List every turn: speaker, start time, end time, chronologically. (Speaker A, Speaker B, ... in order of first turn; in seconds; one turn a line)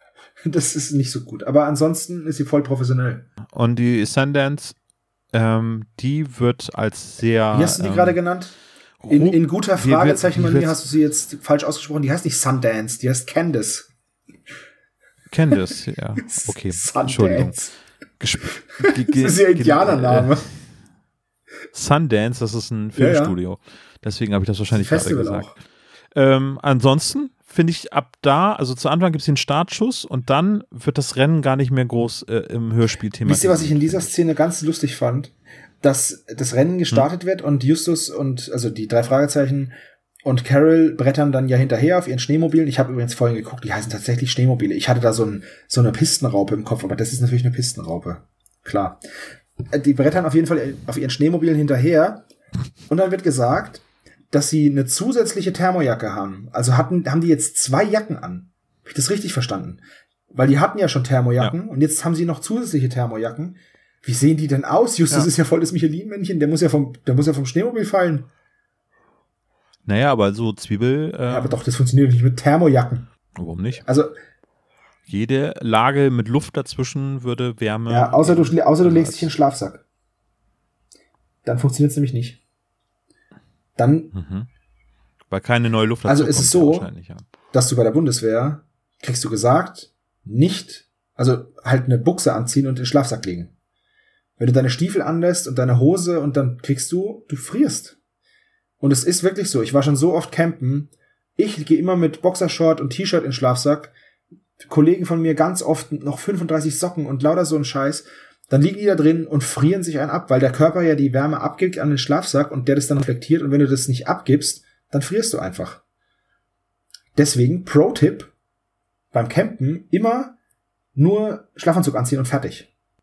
Speaker A: 0.5-3.3
Speaker B: 3.5-4.8
Speaker B: 5.3-8.2
Speaker A: 7.5-8.5
Speaker B: 9.0-10.8
Speaker A: 9.1-13.9
Speaker B: 15.3-17.6
Speaker A: 16.2-17.7
Speaker B: 18.2-20.4
Speaker A: 18.8-20.5
Speaker B: 21.7-25.5
Speaker A: 23.0-23.4
Speaker A: 24.7-25.5
Speaker B: 26.1-34.1
Speaker A: 33.2-39.7
Speaker A: 40.3-49.0
Speaker A: 49.7-52.2
Speaker A: 52.9-59.8
Speaker A: 60.3-68.3
Speaker B: 69.9-71.6
Speaker A: 71.3-73.1
Speaker B: 73.4-73.8
Speaker A: 73.8-74.1
Speaker B: 75.1-79.3
Speaker A: 77.9-79.8
Speaker A: 81.5-82.4
Speaker A: 83.8-84.1
Speaker B: 84.1-84.5
Speaker B: 85.3-87.2
Speaker A: 86.1-86.9
Speaker A: 87.5-93.5
Speaker A: 94.4-98.0
Speaker A: 98.8-103.9
Speaker A: 104.7-115.8
Speaker A: 117.2-118.3
Speaker A: 119.1-120.3
Speaker A: 121.0-122.7